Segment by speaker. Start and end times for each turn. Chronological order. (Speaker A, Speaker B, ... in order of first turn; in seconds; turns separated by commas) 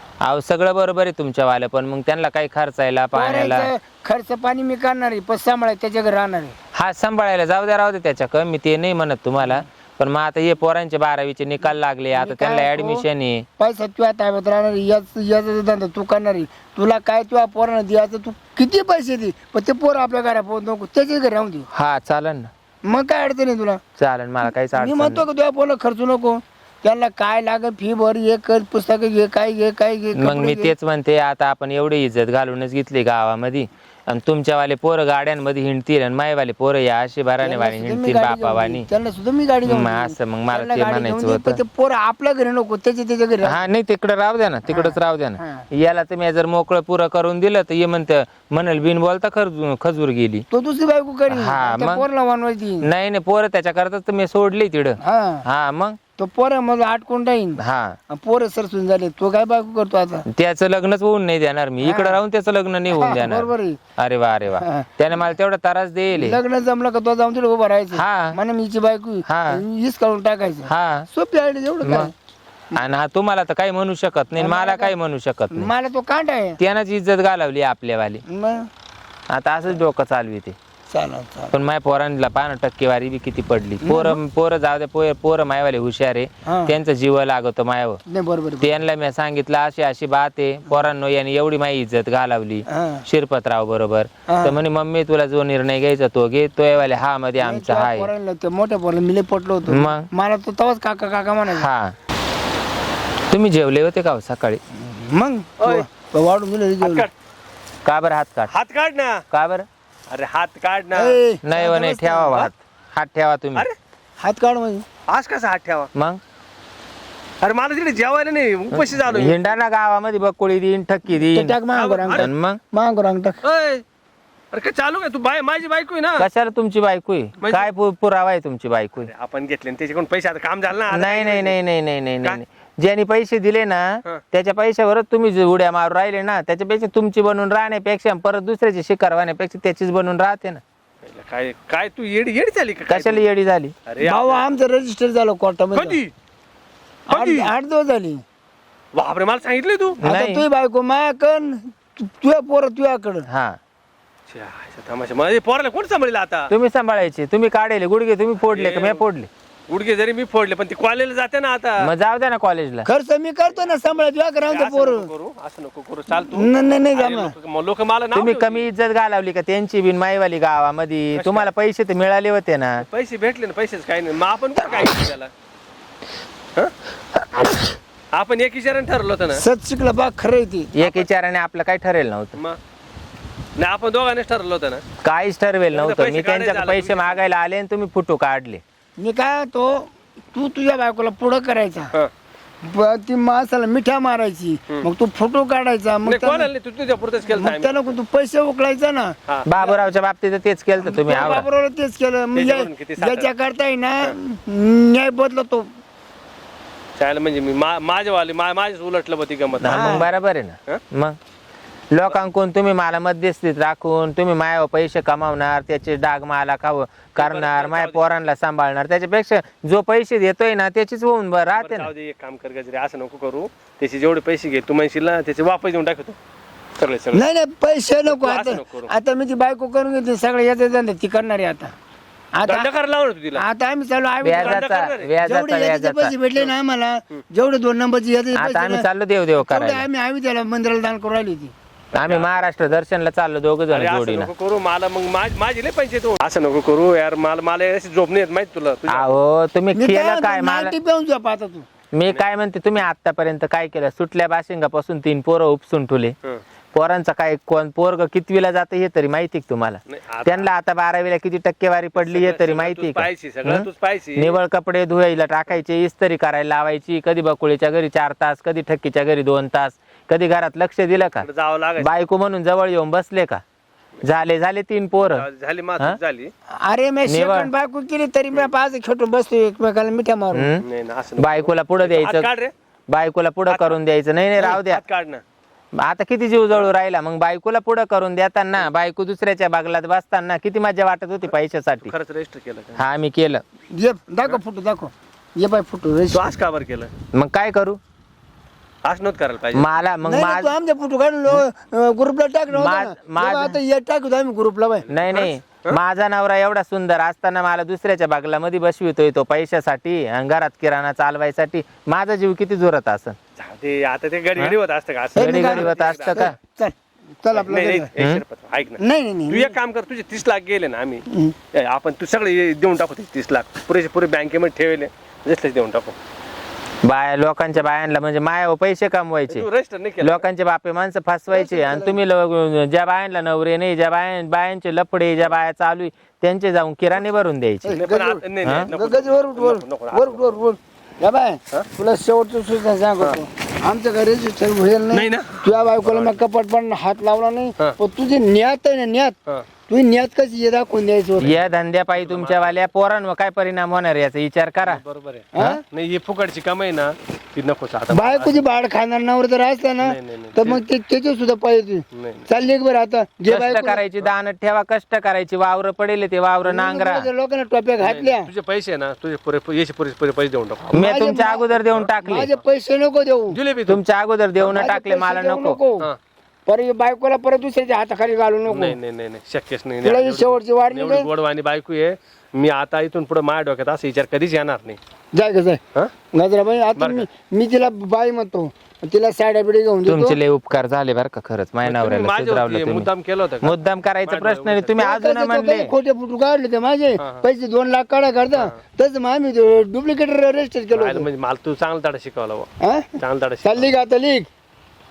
Speaker A: 0.2-3.7, Speaker B: 3.1-6.5, Speaker A: 6.7-13.5, Speaker B: 12.1-13.0, Speaker B: 13.6-21.7, Speaker A: 21.7-22.5, Speaker B: 22.8-23.8, Speaker A: 24.0-25.2, Speaker B: 24.4-30.7, Speaker A: 30.1-38.9, Speaker B: 37.4-43.6, Speaker A: 39.6-41.6, Speaker A: 43.4-50.4, Speaker B: 44.7-45.7, Speaker B: 50.5-52.9, Speaker A: 51.3-52.0, Speaker A: 52.8-56.0, Speaker B: 55.0-55.4, Speaker B: 56.2-60.2, Speaker A: 57.6-58.0, Speaker A: 60.3-66.4, Speaker B: 61.8-62.2, Speaker B: 62.9-63.8, Speaker B: 64.6-65.0, Speaker B: 66.1-72.1, Speaker A: 67.9-68.4, Speaker A: 69.2-69.6, Speaker A: 70.7-71.1, Speaker A: 71.8-72.1, Speaker A: 72.7-75.7, Speaker B: 74.3-74.9, Speaker B: 75.5-76.6, Speaker A: 76.6-78.2, Speaker B: 78.3-78.7, Speaker A: 79.3-80.5, Speaker B: 80.9-81.5, Speaker A: 81.5-88.0, Speaker B: 83.8-84.2, Speaker B: 86.4-86.7, Speaker B: 88.1-88.8, Speaker A: 88.6-98.1, Speaker B: 92.7-93.0, Speaker B: 94.3-94.6, Speaker B: 97.4-101.7, Speaker A: 99.7-100.1, Speaker A: 101.5-101.9, Speaker A: 103.3-104.6, Speaker B: 104.8-107.1, Speaker C: 105.6-105.8, Speaker C: 106.8-107.1, Speaker A: 107.8-108.5, Speaker C: 108.5-109.2, Speaker A: 109.3-109.7, Speaker C: 110.1-111.2, Speaker B: 110.9-112.5, Speaker A: 111.4-113.7, Speaker B: 114.2-114.8, Speaker C: 115.1-115.9, Speaker A: 115.9-116.2, Speaker C: 117.4-119.5, Speaker A: 118.7-121.6, Speaker B: 121.1-123.4, Speaker C: 121.7-122.3, Speaker A: 122.1-122.6, Speaker C: 123.4-123.8, Speaker C: 124.5-126.3, Speaker A: 126.2-129.1, Speaker C: 127.4-127.7, Speaker C: 129.0-131.6, Speaker A: 130.9-140.6, Speaker C: 141.0-143.2, Speaker A: 142.9-143.7, Speaker C: 143.9-144.5, Speaker B: 144.0-146.0, Speaker C: 145.7-146.1, Speaker B: 147.1-148.2, Speaker C: 147.1-147.5, Speaker C: 148.9-150.0, Speaker A: 150.0-150.4, Speaker B: 150.0-153.2, Speaker A: 153.3-153.6, Speaker C: 154.3-156.5, Speaker A: 156.5-159.3, Speaker C: 158.4-159.0, Speaker C: 159.7-161.9, Speaker A: 161.8-162.9, Speaker B: 162.8-165.1, Speaker C: 164.5-168.7, Speaker B: 166.1-167.3, Speaker A: 168.1-172.8, Speaker C: 171.1-171.5, Speaker C: 172.8-175.3, Speaker C: 178.1-179.4, Speaker B: 179.3-180.7, Speaker A: 180.7-182.4, Speaker C: 180.8-181.1, Speaker C: 183.6-184.8, Speaker A: 185.0-188.6, Speaker C: 185.7-187.2, Speaker B: 189.0-191.9, Speaker B: 192.6-196.5, Speaker C: 196.0-197.9, Speaker B: 197.3-199.1, Speaker C: 199.3-199.8, Speaker A: 199.4-201.4, Speaker B: 200.8-205.7, Speaker C: 202.3-203.3, Speaker C: 207.0-210.1, Speaker A: 209.6-211.2, Speaker B: 209.6-210.0, Speaker A: 211.9-221.9, Speaker C: 217.1-218.1, Speaker C: 221.6-226.2, Speaker C: 226.8-227.2, Speaker B: 227.1-231.7, Speaker C: 228.1-228.9, Speaker B: 232.3-232.7, Speaker C: 232.4-233.4, Speaker B: 233.3-234.7, Speaker A: 234.2-236.1, Speaker C: 234.3-235.1, Speaker B: 235.2-238.8, Speaker A: 238.3-239.8, Speaker B: 239.4-241.5, Speaker C: 241.9-242.7, Speaker A: 242.0-244.3, Speaker C: 243.7-249.2, Speaker A: 248.9-250.7, Speaker B: 249.7-251.7, Speaker A: 251.9-256.1, Speaker A: 256.7-271.3, Speaker C: 259.9-260.5, Speaker C: 261.9-264.4, Speaker C: 271.2-271.9, Speaker A: 271.8-273.4, Speaker A: 274.0-275.2, Speaker C: 274.9-276.3, Speaker B: 276.5-280.5, Speaker A: 277.1-277.5, Speaker A: 280.3-280.6, Speaker C: 280.6-282.5, Speaker A: 281.2-282.3, Speaker A: 282.9-284.8, Speaker C: 283.5-283.8, Speaker C: 284.4-285.2, Speaker A: 285.8-291.9, Speaker C: 291.3-292.8, Speaker A: 292.8-293.4, Speaker B: 293.7-296.2, Speaker C: 296.1-296.9, Speaker A: 297.1-297.8, Speaker C: 298.8-299.7, Speaker A: 299.5-300.5, Speaker B: 300.0-304.9, Speaker A: 302.5-303.6, Speaker A: 304.9-313.2, Speaker C: 305.0-305.8, Speaker C: 313.4-316.2, Speaker A: 315.1-316.3, Speaker B: 315.2-317.9, Speaker C: 317.3-325.9, Speaker B: 318.8-319.5, Speaker B: 321.1-321.3, Speaker A: 326.8-329.4, Speaker C: 329.3-330.2, Speaker A: 330.0-337.8, Speaker B: 331.3-332.0, Speaker B: 337.6-349.1, Speaker C: 337.7-340.4, Speaker A: 338.4-338.7, Speaker C: 344.9-346.2, Speaker B: 349.7-351.4, Speaker A: 351.2-354.8, Speaker C: 351.9-352.6, Speaker C: 354.6-358.4, Speaker B: 355.3-355.6, Speaker B: 357.9-363.8, Speaker C: 359.8-360.6, Speaker C: 361.9-362.3, Speaker A: 363.3-367.1, Speaker B: 366.4-368.3, Speaker C: 367.8-370.7, Speaker B: 370.7-373.4, Speaker A: 370.7-372.3, Speaker C: 373.3-373.8, Speaker A: 373.7-375.6, Speaker B: 374.5-375.9, Speaker B: 376.5-378.8, Speaker C: 378.5-384.8, Speaker B: 379.8-381.1, Speaker B: 385.1-385.6, Speaker B: 386.1-390.2, Speaker C: 386.8-387.1, Speaker A: 389.9-395.7, Speaker C: 391.6-394.8, Speaker B: 394.8-401.1, Speaker C: 397.0-397.2, Speaker C: 400.7-403.7, Speaker B: 402.6-404.3